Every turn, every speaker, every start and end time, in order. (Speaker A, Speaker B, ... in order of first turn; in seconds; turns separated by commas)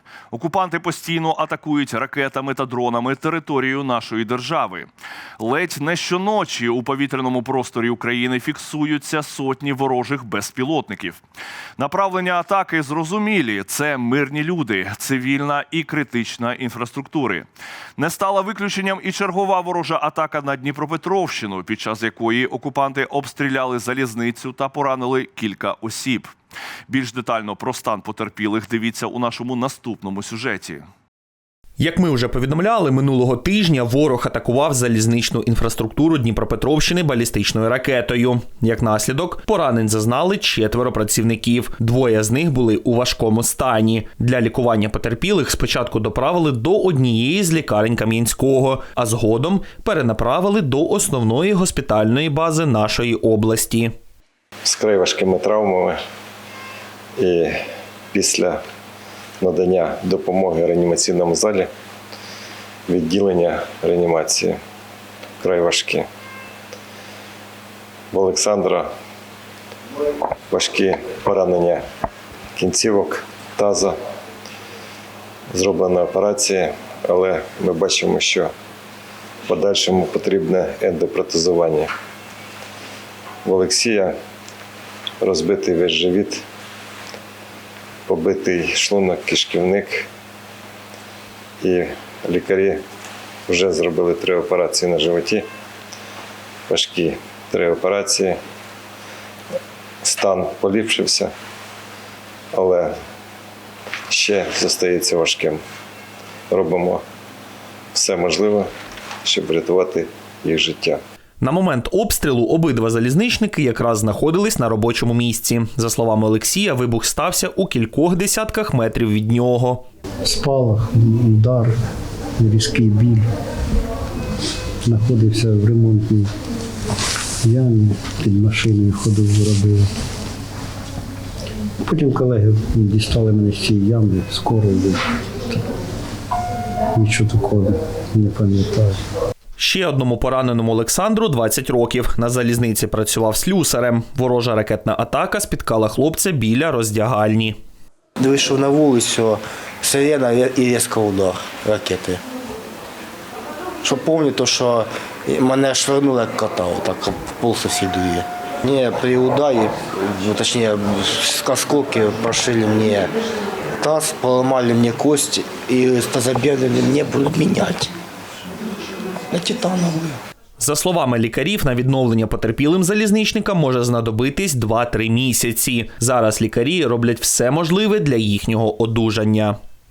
Speaker A: 0.3-11.2, Speaker A: 11.8-26.3, Speaker A: 26.9-30.9, Speaker B: 31.8-53.9, Speaker C: 54.6-56.0, Speaker C: 57.2-57.6, Speaker C: 58.1-58.6, Speaker C: 59.4-61.7, Speaker C: 62.9-64.6, Speaker C: 65.4-66.1, Speaker C: 68.1-68.9, Speaker C: 70.5-71.8, Speaker C: 72.5-74.0, Speaker C: 75.5-78.5, Speaker C: 79.5-81.9, Speaker C: 83.4-84.1, Speaker C: 85.2-86.4, Speaker C: 88.1-90.1, Speaker C: 91.6-92.8, Speaker C: 93.5-95.4, Speaker C: 96.7-98.4, Speaker C: 100.0-101.3, Speaker C: 102.5-102.9, Speaker C: 104.1-105.6, Speaker C: 106.5-107.0, Speaker C: 107.9-108.7, Speaker C: 109.2-111.0, Speaker B: 111.4-119.8, Speaker D: 120.2-121.7, Speaker D: 122.4-123.2, Speaker D: 124.8-126.3, Speaker D: 127.4-129.9, Speaker D: 131.8-135.0, Speaker D: 136.9-139.0, Speaker B: 139.6-147.6, Speaker E: 148.2-152.2, Speaker E: 153.8-163.1, Speaker E: 163.8-167.9, Speaker E: 169.3-170.2, Speaker B: 170.6-179.6